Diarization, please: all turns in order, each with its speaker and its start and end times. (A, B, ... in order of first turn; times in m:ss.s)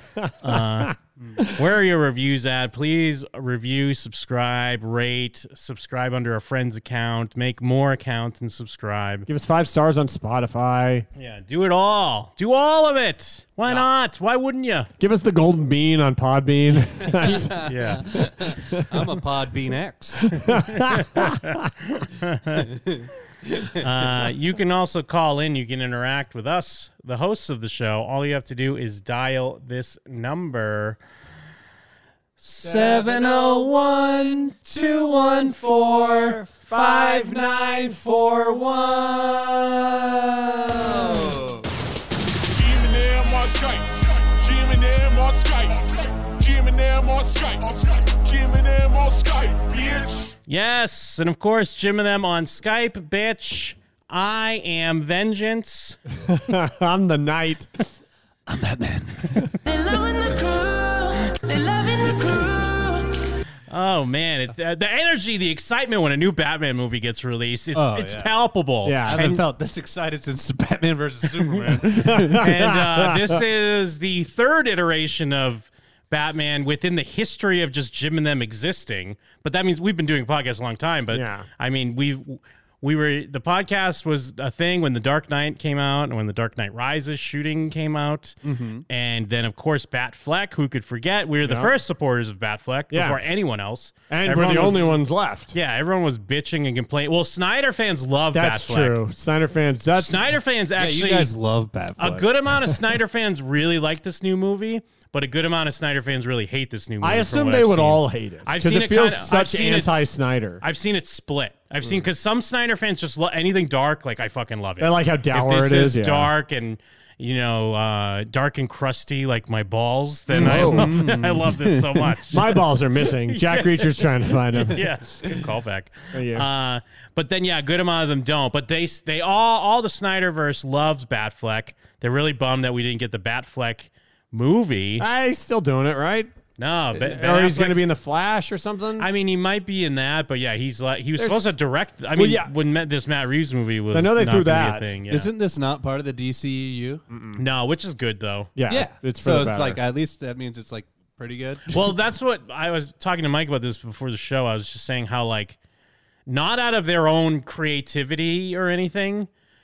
0:00.2-0:00.9 A
0:00.4-0:09.3 B
0:09.3-0:11.1 A
0:11.2-0:14.9 B
0:15.0-0:17.6 A
0:17.2-0:20.5 C
0:17.6-0:18.0 B
0:18.3-0:18.8 A
0:20.5-0:21.3 A
0:20.8-0:22.7 B
0:22.8-0:24.3 C
0:23.8-0:31.0 B
0:32.4-0:39.6 B
0:32.6-0:33.7 C
0:34.6-0:38.1 C
0:39.1-0:41.6 C
0:42.5-0:50.3 D
0:50.5-0:56.0 B
0:56.2-0:57.7 A
0:58.5-0:59.6 C
1:03.7-1:09.4 B
1:07.7-1:08.3 C
1:08.8-1:09.4 A
1:09.1-1:12.4 C
1:11.8-1:13.4 A
1:12.4-1:28.4 B
1:21.1-1:21.5 A
1:28.4-1:28.8 C
1:28.9-1:35.0 B
1:31.4-1:31.7 A
1:32.9-1:33.2 A
1:34.1-1:35.5 A
1:35.5-1:39.0 B
1:38.3-1:40.2 A
1:39.9-1:41.3 B
1:40.8-1:42.3 C
1:42.0-1:50.0 B
1:47.0-1:50.6 A
1:50.6-2:02.4 B
1:54.8-1:56.3 A
2:00.3-2:01.0 A
2:00.3-2:02.2 C
2:02.3-2:04.8 A
2:03.3-2:15.0 B
2:06.1-2:06.5 A
2:15.0-2:16.3 A
2:16.6-2:17.8 B
2:16.9-2:19.1 A
2:19.0-2:25.3 B
2:21.2-2:21.5 A
2:22.1-2:22.5 A
2:23.9-2:24.9 A
2:25.1-2:27.0 C
2:27.1-2:27.4 A
2:27.4-2:28.5 B
2:28.5-2:29.8 A
2:28.7-2:31.9 C
2:31.7-2:35.6 B
2:36.3-2:39.3 B